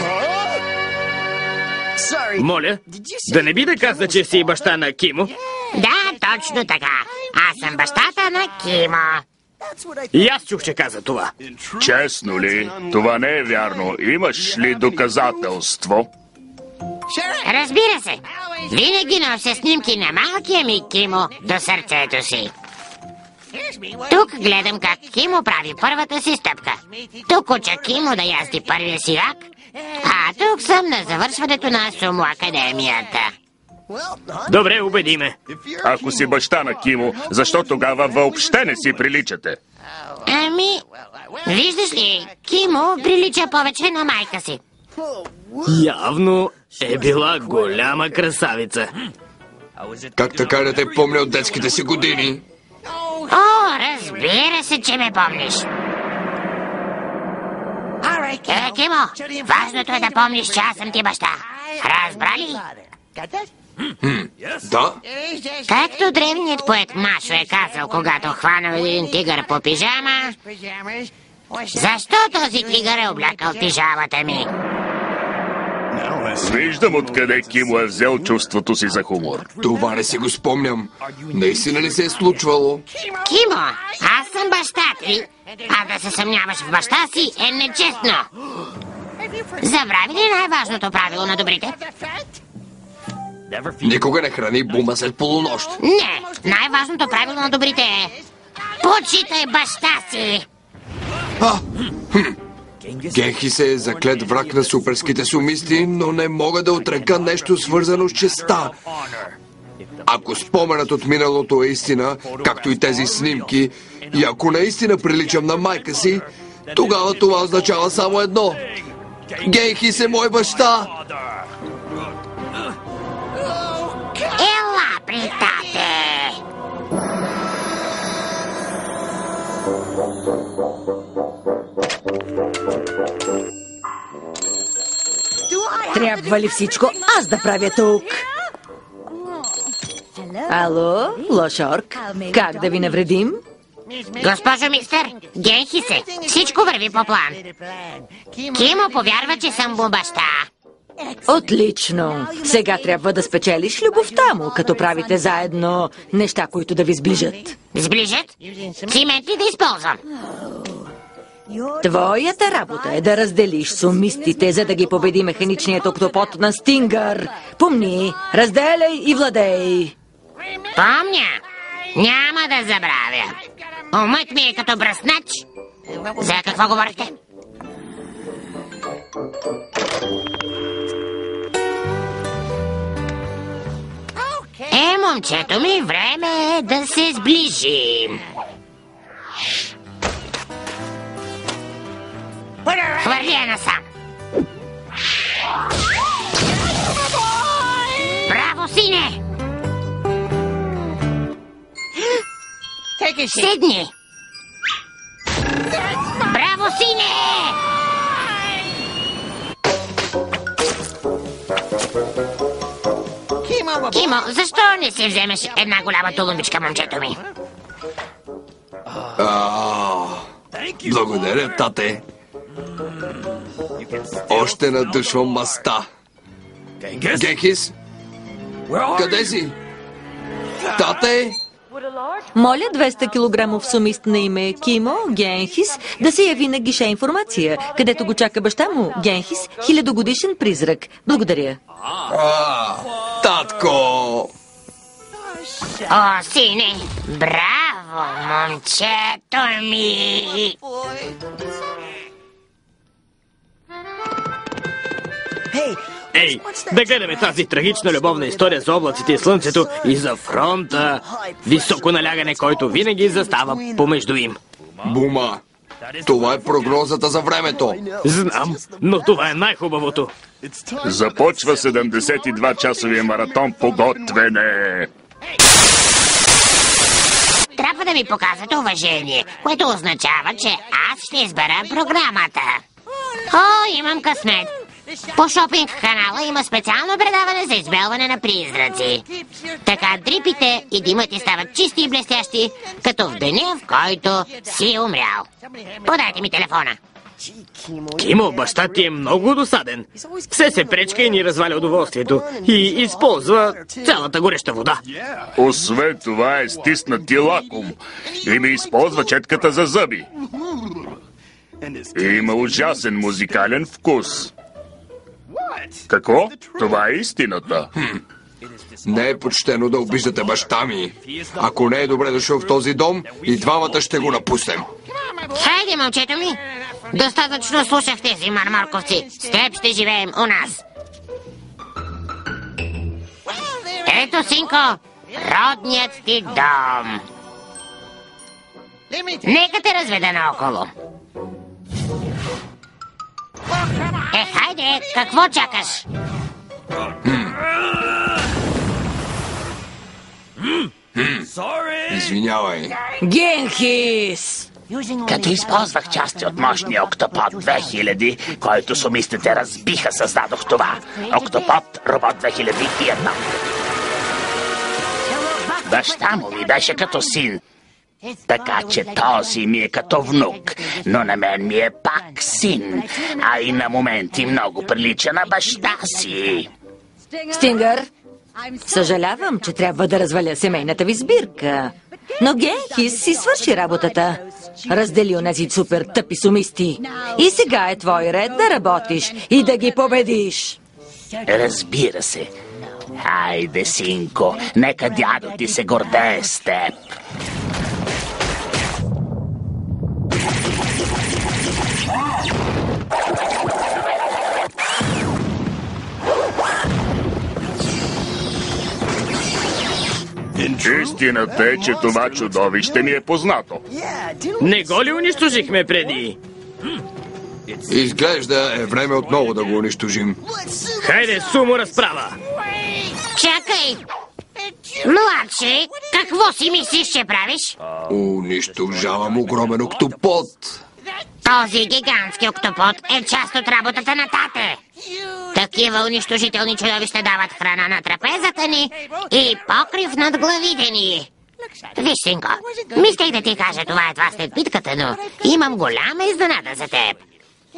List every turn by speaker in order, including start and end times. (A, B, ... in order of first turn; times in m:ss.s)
0:02.3-0:05.3 A
0:05.7-0:09.2 B
0:10.1-0:11.3 A
0:11.8-0:16.1 C
0:17.4-0:22.5 B
0:24.1-0:29.4 B
0:30.0-0:33.3 B
0:34.5-0:35.4 A
0:35.8-0:39.6 C
0:40.3-0:40.8 B
0:41.4-0:44.6 B
0:45.7-0:48.9 A
0:50.2-0:52.4 D
0:53.3-0:55.7 B
0:58.5-1:02.6 B
1:04.0-1:05.0 D
1:05.7-1:10.4 B
1:11.7-1:14.5 B
1:16.4-1:19.5 C
1:19.6-1:22.9 D
1:23.2-1:28.3 B
1:29.6-1:31.8 B
1:33.8-1:35.8 D
1:35.8-1:38.2 B
1:38.8-1:40.5 B
1:41.4-1:42.4 D
1:43.1-1:48.8 D
1:50.1-1:58.6 D
1:59.4-2:00.9 D
2:04.4-2:06.4 B
2:15.9-2:18.2 E
2:20.5-2:23.4 E
2:24.2-2:27.4 B
2:28.5-2:30.5 B
2:31.3-2:37.6 E
2:37.7-2:40.0 B
2:41.8-2:49.9 E
2:50.8-2:51.4 B
2:51.9-2:53.4 B
2:53.9-2:55.4 B
2:56.2-2:57.2 B
3:04.7-3:08.2 B
3:12.8-3:13.8 B
3:18.3-3:19.2 B
3:23.1-3:23.9 B
3:26.2-3:27.6 B
3:33.9-3:37.2 B
3:39.2-3:40.3 D
3:40.8-3:42.0 D
3:44.3-3:45.9 D
3:47.1-3:47.7 D
3:48.9-3:49.6 D
3:50.8-3:51.4 D
3:52.3-4:01.6 E
4:02.1-4:04.3 D
4:05.9-4:10.6 B
4:15.6-4:24.4 A
4:24.8-4:25.4 D
4:26.0-4:27.8 D
4:28.0-4:30.1 A
4:30.8-4:34.9 C
4:37.6-4:42.6 B
4:43.3-4:44.5 B
4:45.2-4:49.0 B
4:49.6-4:55.3 B
4:55.8-4:56.8 B
4:58.0-5:04.8 A
5:05.4-5:10.1 C
5:11.9-5:14.3 C
5:15.9-5:17.7 C
5:17.8-5:18.0 D
5:18.8-5:24.7 D
5:25.3-5:26.4 B
5:26.9-5:30.6 B
5:33.8-5:37.0 B
5:39.2-5:40.7 B
5:44.1-5:45.8 B
5:47.0-5:47.4 D
5:50.9-5:51.3 D
5:51.9-5:52.8 D
5:53.0-5:54.5 E
5:55.0-6:03.4 F
6:05.6-6:07.4 F
6:08.3-6:16.5 F
6:17.3-6:17.9 E
6:18.6-6:30.6 E
6:31.3-6:32.3 F
6:33.0-6:36.9 F
6:50.6-6:53.6 C
6:54.4-6:56.2 A
6:57.7-7:00.2 D
7:00.8-7:02.2 A
7:03.2-7:03.8 B
7:04.8-7:07.6 B
7:07.9-7:10.6 D
7:11.2-7:14.6 B
7:15.3-7:21.1 B
7:21.8-7:27.0 B